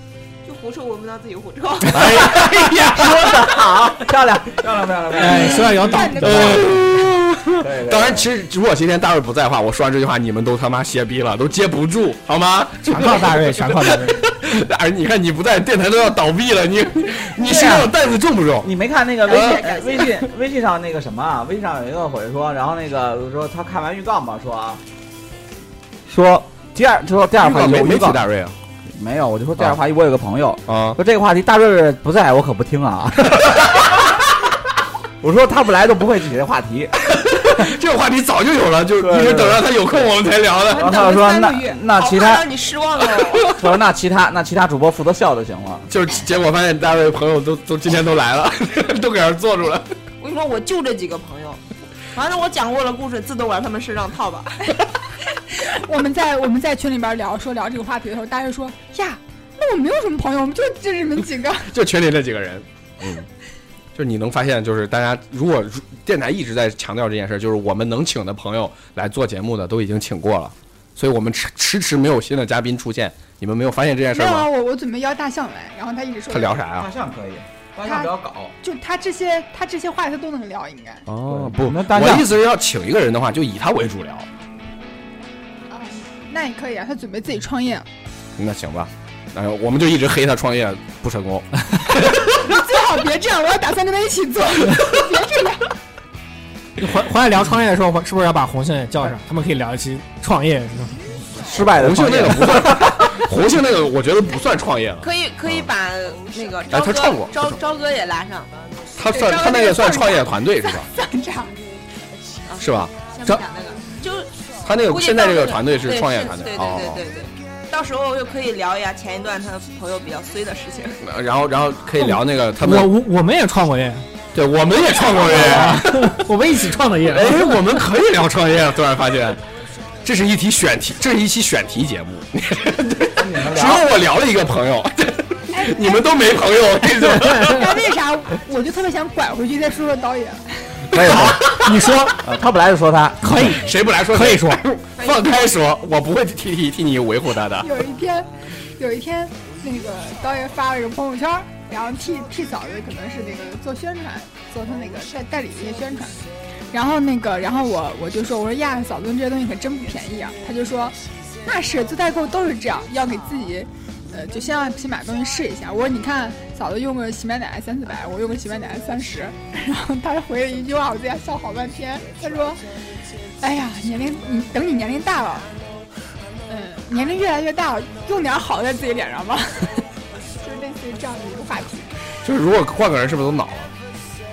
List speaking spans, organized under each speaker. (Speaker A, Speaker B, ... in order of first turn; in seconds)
Speaker A: 0.4-2.4, 19.3-20.1, 40.7-43.6, 50.2-51.6, 52.1-54.8, 105.0-108.5, 112.5-121.0, 145.2-145.4
Speaker B: 1.9-3.5, 5.9-18.7, 19.3-19.6, 27.4-28.6, 30.7-31.0, 37.1-41.0, 45.9-49.9, 61.6-63.3, 63.9-74.5, 76.3-76.9, 81.1-84.3, 88.4-92.4, 101.6-105.7, 106.7-107.6, 108.9-110.9, 112.6-112.9, 114.6-117.0, 121.0-122.9, 124.3-126.2, 127.0-129.4, 130.0-137.8, 140.9-141.8, 143.4-147.7, 182.2-183.7
Speaker C: 1.9-5.9, 7.6-8.3, 17.4-17.9, 18.6-24.8, 26.1-28.2, 28.9-34.0, 35.2-36.9, 39.0-39.9, 40.7-42.5, 43.5-45.9, 76.8-78.5, 81.2-82.3, 101.4-103.3, 125.3-125.5, 133.1-133.9, 140.9-143.2
Speaker D: 5.1-6.8, 12.8-14.2, 96.8-101.0, 122.0-124.1, 125.2-127.6, 137.1-137.6, 141.4-142.2, 143.2-144.6
Speaker E: 5.8-6.7, 55.5-61.7, 74.1-76.6, 77.8-81.0, 85.7-87.9, 92.4-95.7, 109.1-111.5, 135.5-136.0, 137.4-140.8, 147.6-172.6, 173.4-175.5, 176.5-179.9, 180.4-181.9